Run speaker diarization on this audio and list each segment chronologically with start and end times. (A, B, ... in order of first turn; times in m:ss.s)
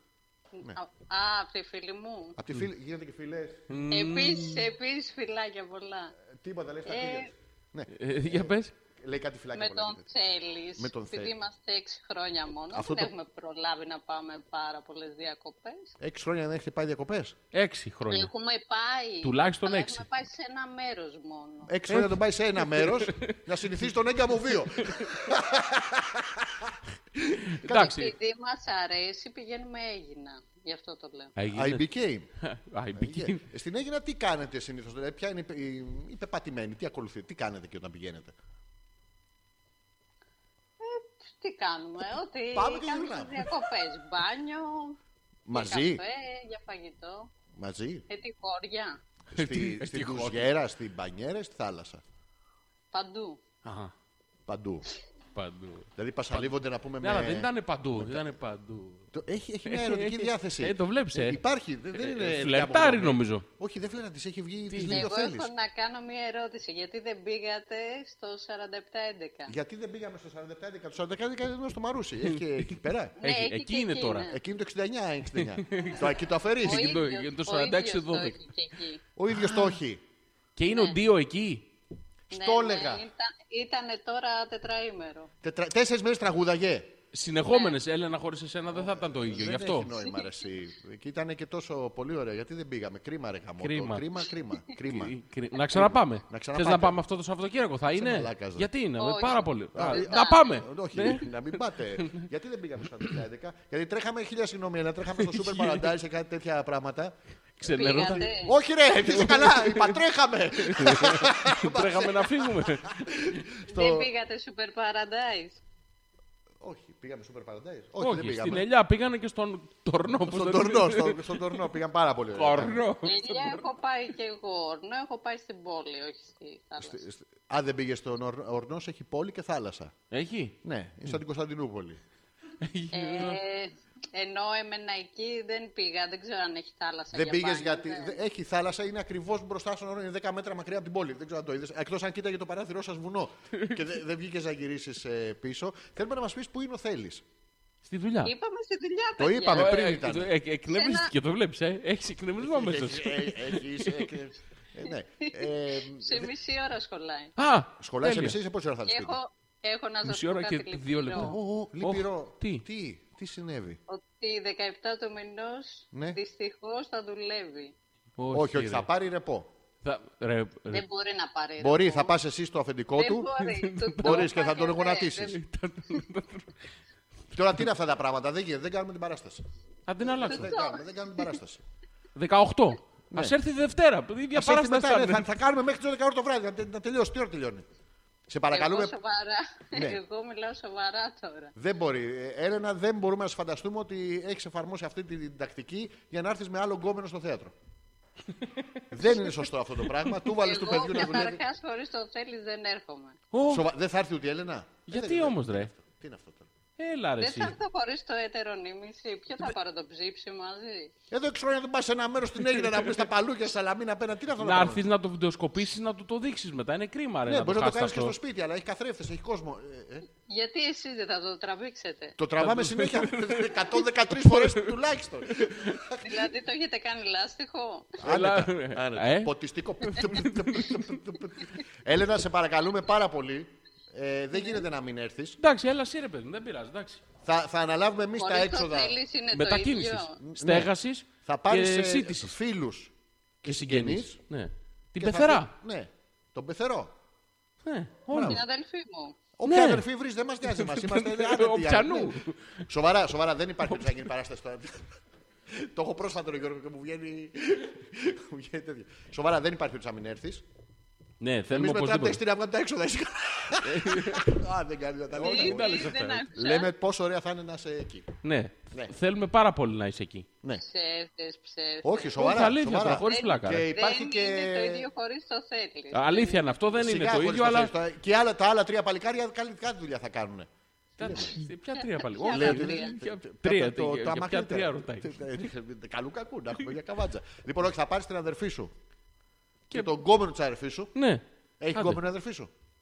0:00.6-0:02.4 A
0:02.4-0:03.6 B
0:03.7-0:04.7 C
0:03.9-0:06.1 A
0:06.2-0:10.1 B
0:06.9-0:07.3 A
0:07.9-0:08.7 C
0:09.5-0:15.9 A
0:10.8-0:11.3 B
0:12.7-0:13.1 B
0:16.0-0:17.4 B
0:17.5-0:18.3 C
0:18.1-0:21.7 A
0:19.2-0:20.0 C
0:21.7-0:28.0 B
0:21.9-0:23.4 C
0:24.8-0:25.1 C
0:27.4-0:28.1 C
0:27.8-0:31.3 A
0:31.4-0:31.9 C
0:31.5-0:32.3 B
0:32.4-0:33.4 C
0:33.0-0:38.3 B
0:40.8-0:45.0 A
0:42.5-0:43.5 B
0:45.5-0:46.0 B
0:45.5-0:47.3 A
0:47.6-0:48.0 B
0:48.1-0:49.0 A
0:49.3-0:52.0 B
0:49.4-0:50.5 C
0:52.9-0:53.4 A
0:53.6-0:53.9 C
0:54.5-0:54.9 B
0:55.4-0:59.1 C
0:56.0-0:58.3 B
0:59.1-1:05.5 B
0:59.7-1:01.4 C
1:01.9-1:03.5 C
1:04.7-1:05.1 C
1:04.8-1:09.5 A
1:09.5-1:13.2 B
1:13.2-1:14.4 A
1:13.2-1:14.3 C
1:14.3-1:16.9 B
1:15.4-1:16.1 C
1:16.6-1:18.4 C
1:16.6-1:19.0 A
1:19.2-1:20.0 B
1:19.3-1:19.8 C
1:20.6-1:21.7 C
1:20.7-1:21.0 A
1:22.3-1:23.0 B
1:22.3-1:25.3 A
1:25.4-1:27.0 B
1:27.1-1:29.9 C
1:27.5-1:27.8 A
1:28.7-1:35.2 B
1:33.6-1:34.2 C
1:34.8-1:41.4 C
1:35.7-1:37.0 B
1:38.0-1:38.7 B
1:39.0-1:40.5 A
1:39.8-1:47.2 B
1:42.0-1:42.2 C
1:45.2-1:45.9 C
1:47.6-1:48.3 C
1:47.7-1:48.6 A
1:47.8-1:54.1 B
1:49.0-1:50.0 C
1:50.6-1:53.0 C
1:53.7-1:55.6 A
1:56.6-1:58.7 B
1:58.0-2:01.7 C
2:00.3-2:02.8 B
2:02.3-2:03.7 C
2:03.0-2:07.0 A
2:06.8-2:09.9 B
2:10.1-2:10.6 C
2:10.6-2:12.0 B
2:12.6-2:13.4 C
2:12.9-2:18.2 A
2:17.1-2:27.2 B
2:27.8-2:28.3 C
2:28.2-2:29.9 A
2:29.2-2:30.3 B
2:29.6-2:34.1 C
2:30.7-2:31.1 A
2:32.4-2:36.3 B
2:35.4-2:37.3 A
2:37.4-2:38.4 C
2:37.8-2:39.2 B
2:38.9-2:41.4 A
2:40.0-2:42.6 C
2:41.2-2:43.8 B
2:43.9-2:47.7 A
2:45.9-2:46.2 B
2:48.2-2:48.9 C
2:48.3-2:49.5 B
2:49.8-2:50.8 C
2:50.7-2:52.2 A
2:51.6-2:53.3 B
2:53.0-2:55.4 A
2:53.4-2:54.3 C
2:54.0-2:55.4 B
2:55.2-2:56.5 C
2:57.3-2:59.4 B
2:59.9-3:00.5 C
3:00.0-3:01.6 B
3:00.2-3:01.2 A
3:02.2-3:05.3 C
3:03.1-3:03.4 B
3:04.3-3:07.6 B
3:08.3-3:08.9 B
3:08.5-3:11.5 A
3:11.6-3:17.5 B
3:18.4-3:19.3 C
3:18.9-3:21.4 B
3:20.4-3:23.2 A
3:23.3-3:23.6 C
3:23.5-3:26.5 B
3:24.9-3:25.7 C
3:26.8-3:27.6 C
3:27.2-3:30.9 A
3:31.1-3:34.9 B
3:34.4-3:38.2 C
3:37.3-3:40.1 B
3:40.3-3:42.2 A
3:42.2-3:46.2 B
3:42.4-3:45.8 C
3:46.0-3:48.0 A
3:48.0-3:55.4 B
3:48.0-3:51.0 C
3:55.4-3:57.0 C
3:57.2-3:59.0 B
3:58.2-4:00.2 A
3:59.3-4:02.3 C
4:00.2-4:00.7 B
4:01.2-4:02.9 B
4:03.4-4:04.2 B
4:03.4-4:05.5 C
4:05.0-4:06.9 B
4:07.6-4:08.4 C
4:08.1-4:08.4 B
4:08.2-4:09.2 A
4:09.4-4:12.2 B
4:09.5-4:09.8 C
4:10.4-4:12.6 C
4:12.7-4:15.0 B
4:13.7-4:14.0 C
4:15.5-4:20.4 B
4:21.2-4:22.2 C
4:21.5-4:28.1 B
4:23.6-4:24.4 C
4:25.1-4:26.2 C
4:25.2-4:26.7 A
4:28.2-4:30.3 C
4:30.6-4:32.2 A
4:31.8-4:34.9 B
4:32.2-4:33.7 C
4:33.0-4:36.5 A
4:35.9-4:37.7 C
4:36.8-4:41.4 B
4:41.0-4:45.2 C
4:42.0-4:43.0 A
4:42.2-4:48.7 B
4:49.7-4:50.9 B
4:51.0-4:51.2 C
4:51.6-4:52.5 B
4:51.8-4:52.0 C